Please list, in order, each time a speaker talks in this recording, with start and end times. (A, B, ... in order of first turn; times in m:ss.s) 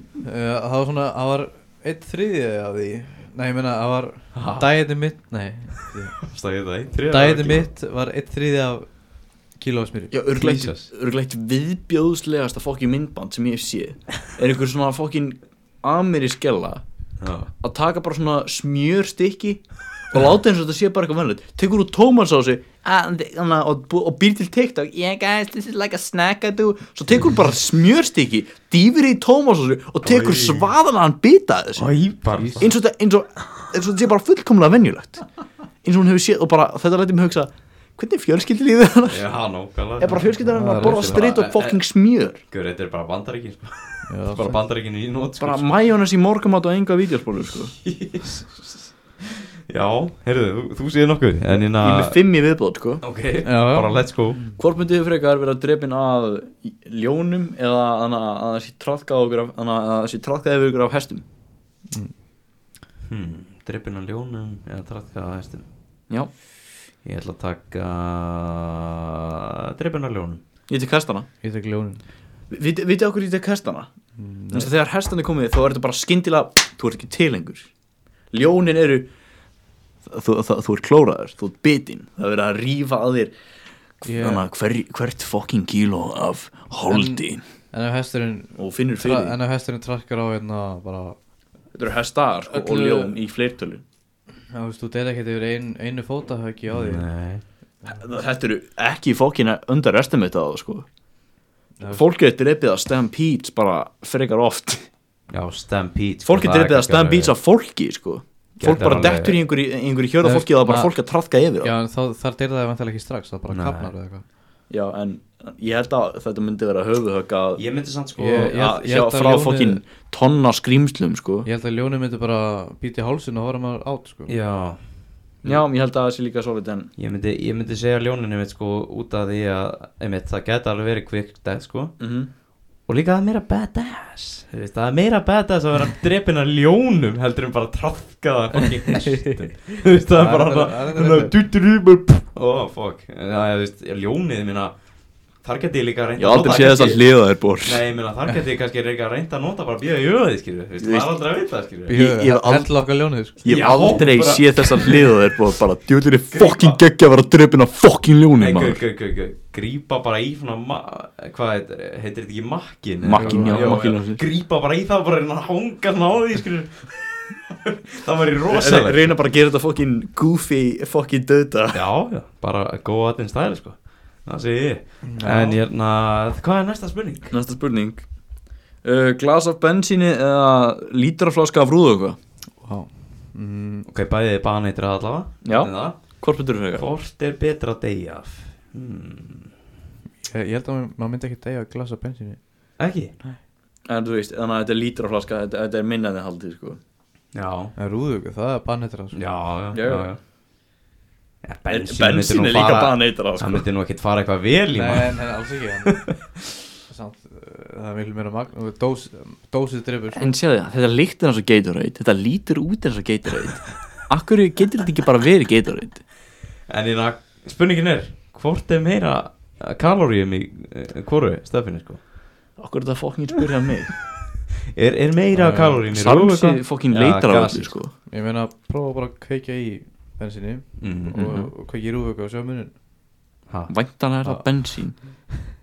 0:00.2-0:06.2 A
0:04.3-0:04.9 B
0:06.2-0:07.7 B
0:07.1-0:10.2 A
0:10.1-0:16.8 C
0:10.4-0:10.9 B
0:17.2-0:17.5 B
0:17.6-0:31.9 C
0:30.0-0:30.7 B
0:31.8-0:32.7 B
0:32.4-0:32.6 A
0:32.6-0:35.2 C
0:35.8-0:39.3 C
0:39.1-0:41.8 B
0:40.0-0:42.4 C
0:40.5-0:41.2 A
0:42.5-0:45.7 B
0:44.0-0:44.6 A
0:45.4-0:47.8 C
0:47.8-0:48.8 B
0:49.7-0:52.2 B
0:51.8-0:53.0 C
0:53.0-0:54.4 B
0:53.4-0:54.6 A
0:54.5-1:01.2 C
1:03.0-1:05.6 B
1:07.0-1:10.4 B
1:10.7-1:11.3 C
1:11.4-1:12.0 A
1:12.5-1:13.9 C
1:14.2-1:14.7 A
1:14.5-1:17.7 C
1:18.3-1:19.1 C
1:20.0-1:23.3 C
1:24.0-1:27.4 C
1:24.0-1:24.4 A
1:26.9-1:31.2 A
1:28.6-1:29.4 C
1:31.7-1:33.8 C
1:32.5-1:33.1 A
1:34.5-1:37.0 A
1:36.7-1:37.4 B
1:37.8-1:40.8 C
1:41.8-1:42.0 A
1:41.9-1:44.9 C
1:45.3-1:47.3 B
1:46.2-1:51.7 C
1:48.6-1:49.4 B
1:50.2-1:50.9 A
1:51.6-1:54.2 A
1:53.5-1:53.9 B
1:54.7-1:57.6 C
1:57.6-1:58.5 B
1:58.2-1:59.8 A
1:58.3-2:01.5 C
2:01.4-2:04.4 A
2:04.3-2:04.8 B
2:05.4-2:06.9 C
2:07.0-2:12.0 B
2:12.0-2:12.3 C
2:12.8-2:24.8 B
2:19.9-2:21.3 A
2:25.4-2:27.0 B
2:26.2-2:27.8 C
2:27.6-2:32.0 B
2:30.8-2:31.1 C
2:31.9-2:33.4 A
2:31.9-2:38.8 C
2:33.4-2:35.1 B
2:36.3-2:36.8 B
2:38.4-2:49.1 B
2:43.0-2:44.2 C
2:43.1-2:43.8 A
2:48.5-2:51.8 C
2:51.7-2:57.3 B
2:55.0-2:55.6 A
2:57.3-2:58.1 C
2:58.8-3:02.2 C
3:02.6-3:03.9 A
3:03.8-3:09.5 B
3:05.4-3:06.8 C
3:10.2-3:12.7 A
3:12.8-3:13.1 B
3:13.8-3:16.8 C
3:17.3-3:17.7 B
3:17.8-3:19.2 A
3:19.1-3:20.2 B
3:19.7-3:20.1 C
3:21.4-3:25.3 B
3:21.7-3:23.6 C
3:24.7-3:26.1 A
3:26.9-3:30.3 A
3:30.1-3:36.0 C
3:36.7-3:42.0 B
3:42.6-3:44.0 C
3:44.7-3:47.8 B
3:45.3-3:45.8 A
3:45.9-3:47.9 C
3:48.1-3:52.7 A
3:50.8-3:51.3 B
3:51.2-3:51.4 C
3:53.7-3:55.0 C
3:54.2-3:55.0 A